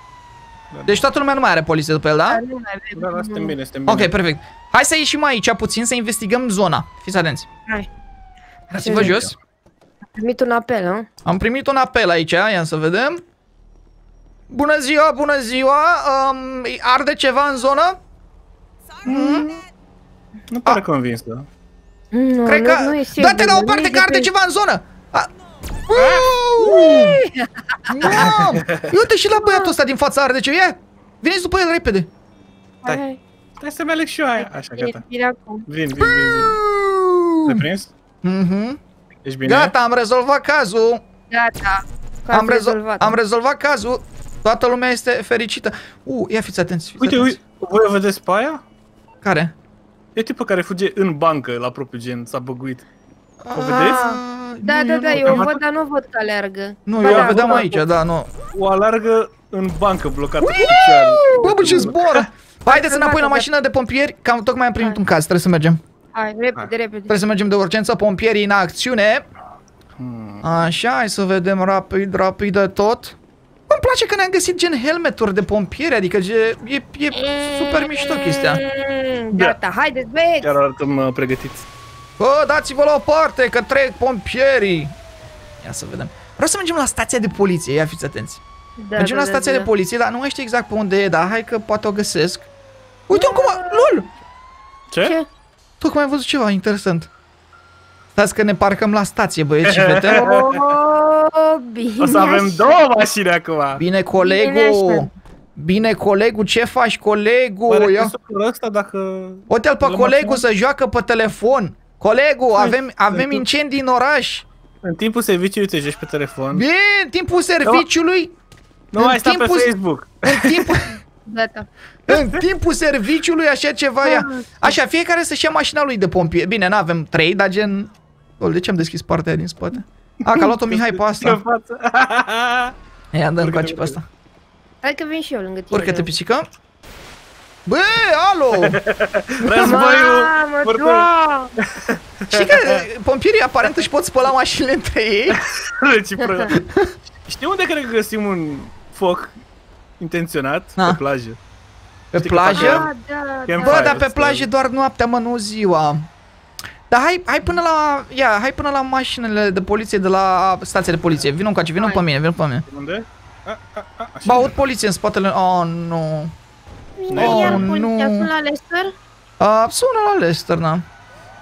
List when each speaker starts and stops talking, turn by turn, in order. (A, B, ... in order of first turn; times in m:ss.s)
0:00.7-0:01.1 A
0:00.8-0:02.4 B
0:02.3-0:03.6 C
0:02.9-0:04.1 A
0:03.9-0:07.5 B
0:08.7-0:09.3 B
0:08.8-0:09.2 C
0:08.9-0:09.3 A
0:10.2-0:11.1 C
0:11.2-0:13.2 B
0:14.5-0:18.0 B
0:19.0-0:19.4 B
0:19.0-0:19.6 A
0:20.5-0:21.5 A
0:22.1-0:24.3 C
0:22.4-0:25.3 B
0:25.9-0:26.3 A
0:26.0-0:27.5 C
0:26.1-0:27.2 B
0:27.9-0:32.1 B
0:28.0-0:28.9 A
0:29.4-0:29.7 C
0:32.8-0:33.2 C
0:33.6-0:35.0 A
0:34.4-0:35.6 C
0:35.7-0:36.6 A
0:36.0-0:37.6 B
0:37.4-0:37.9 A
0:38.2-0:38.8 B
0:39.2-0:39.7 A
0:39.4-0:41.0 B
0:41.3-0:43.2 C
0:42.3-0:47.4 B
0:47.0-0:48.6 A
0:49.2-0:49.5 B
0:50.1-0:52.8 A
0:53.4-0:55.5 B
0:53.5-0:54.0 A
0:53.7-0:57.8 C
0:55.2-0:55.6 A
0:56.8-0:58.3 B
0:57.0-0:57.7 A
0:58.5-1:02.3 A
1:00.4-1:05.8 B
1:01.3-1:01.9 C
1:02.6-1:03.5 C
1:06.1-1:07.3 C
1:07.1-1:09.2 B
1:10.0-1:10.5 A
1:10.4-1:13.2 B
1:13.7-1:18.6 B
1:17.2-1:20.5 C
1:19.3-1:19.6 A
1:20.4-1:21.6 A
1:22.2-1:24.9 B
1:25.6-1:28.4 B
1:28.8-1:29.7 C
1:29.0-1:32.5 B
1:33.1-1:34.1 B
1:33.1-1:33.9 C
1:34.9-1:35.2 A
1:35.8-1:37.1 B
1:38.2-1:40.2 B
1:39.6-1:40.6 A
1:40.1-1:42.9 C
1:42.0-1:43.8 A
1:43.8-1:48.1 B
1:44.1-1:45.1 C
1:47.7-1:50.4 A
1:49.5-1:54.5 B
1:52.5-1:53.4 A
1:54.8-1:56.6 A
1:56.5-1:58.3 B
1:58.9-2:00.9 A
1:59.0-1:59.7 B
2:00.2-2:01.0 B
2:01.2-2:01.7 C
2:02.1-2:11.4 B
2:02.1-2:02.4 A
2:04.0-2:04.8 C
2:10.2-2:12.7 A
2:13.1-2:14.0 B
2:13.4-2:14.0 A
2:14.8-2:16.1 C
2:15.7-2:16.5 B
2:17.6-2:18.8 B
2:18.5-2:22.8 A
2:19.6-2:21.5 C
2:22.3-2:25.4 B
2:25.3-2:26.6 A
2:26.5-2:26.9 B
2:27.2-2:29.3 A
2:30.0-2:31.4 A
2:32.1-2:32.8 B
2:32.2-2:32.9 A
2:32.5-2:34.0 C
2:33.5-2:34.5 A
2:33.6-2:36.0 B
2:36.9-2:42.6 B
2:41.8-2:42.0 C
2:42.7-2:44.5 A
2:44.2-2:46.3 B
2:47.0-2:48.9 C
2:47.1-2:47.7 A
2:47.1-2:48.3 B
2:49.4-2:50.8 B